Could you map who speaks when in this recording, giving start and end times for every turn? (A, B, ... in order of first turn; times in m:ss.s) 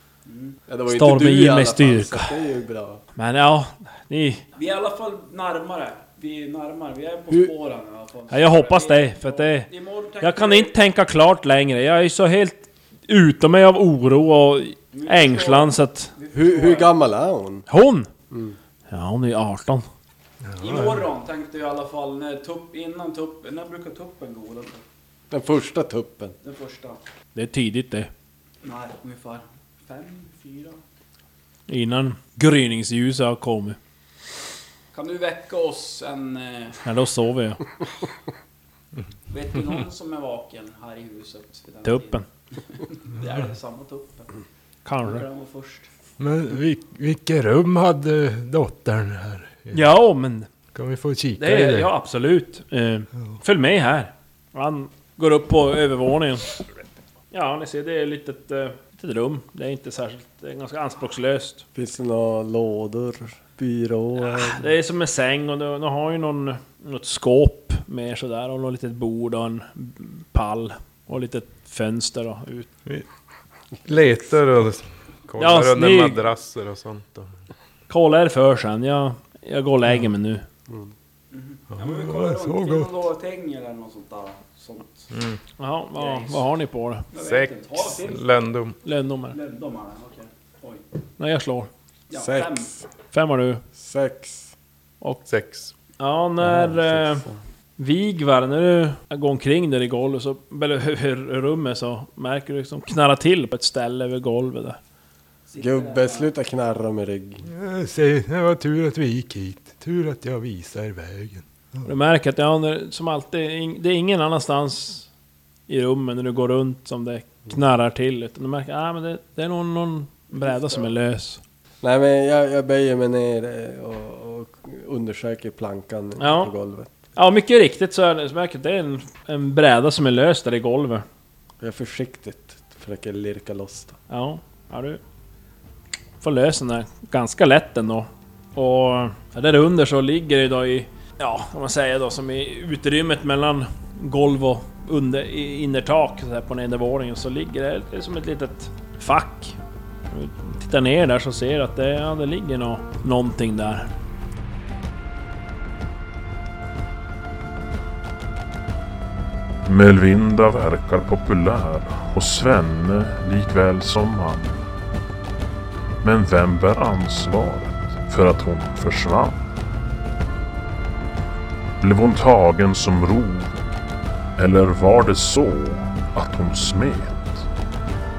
0:00.3-0:00.6 A
0:00.7-0:03.0 B
0:00.9-0:02.4 C
0:03.2-0:04.4 C
0:04.6-0:10.8 A
0:08.3-0:09.7 C
0:10.2-0:16.1 C
0:14.9-0:17.0 A
0:16.3-0:17.7 B
0:17.7-0:18.1 C
0:18.3-0:18.6 B
0:18.9-0:19.9 C
0:20.5-0:20.9 D
0:20.6-0:24.8 A
0:25.3-0:26.4 B
0:26.4-0:27.0 A
0:27.4-0:28.1 C
0:28.6-0:30.8 A
0:31.7-0:33.8 C
0:34.9-0:36.8 A
0:36.8-0:37.6 C
0:39.3-0:44.3 A
0:41.8-0:42.2 C
0:44.8-0:45.2 C
0:45.0-0:45.9 A
0:46.2-0:49.9 D
0:49.7-0:50.5 C
0:50.7-0:51.9 D
0:51.4-0:56.7 C
0:57.3-1:01.6 C
1:01.8-1:04.7 B
1:04.2-1:12.7 C
1:13.8-1:17.4 E
1:15.4-1:16.2 C
1:17.9-1:20.4 C
1:21.3-1:25.1 A
1:21.8-1:23.0 D
1:25.1-1:25.4 E
1:25.6-1:27.1 C
1:26.0-1:26.4 A
1:27.1-1:28.2 A
1:27.1-1:28.8 E
1:28.8-1:29.4 C
1:29.3-1:30.8 A
1:31.2-1:31.7 C
1:32.1-1:32.7 A
1:32.1-1:32.8 B
1:33.1-1:33.6 C
1:33.8-1:34.5 B
1:35.3-1:35.7 E
1:36.0-1:37.2 C
1:36.4-1:37.4 B
1:37.8-1:44.8 C
1:45.5-1:46.3 A
1:45.6-1:47.5 B
1:47.5-1:51.9 D
1:51.8-1:55.1 C
1:55.7-2:01.4 C
2:00.3-2:00.9 A
2:01.8-2:07.0 B
2:06.2-2:06.5 C
2:07.2-2:11.1 C
2:11.6-2:14.0 B
2:14.1-2:15.0 C
2:16.2-2:29.6 C
2:30.1-2:33.9 C
2:39.6-2:44.6 F
2:46.0-2:49.4 F
2:51.8-2:53.6 F
2:54.4-2:57.5 F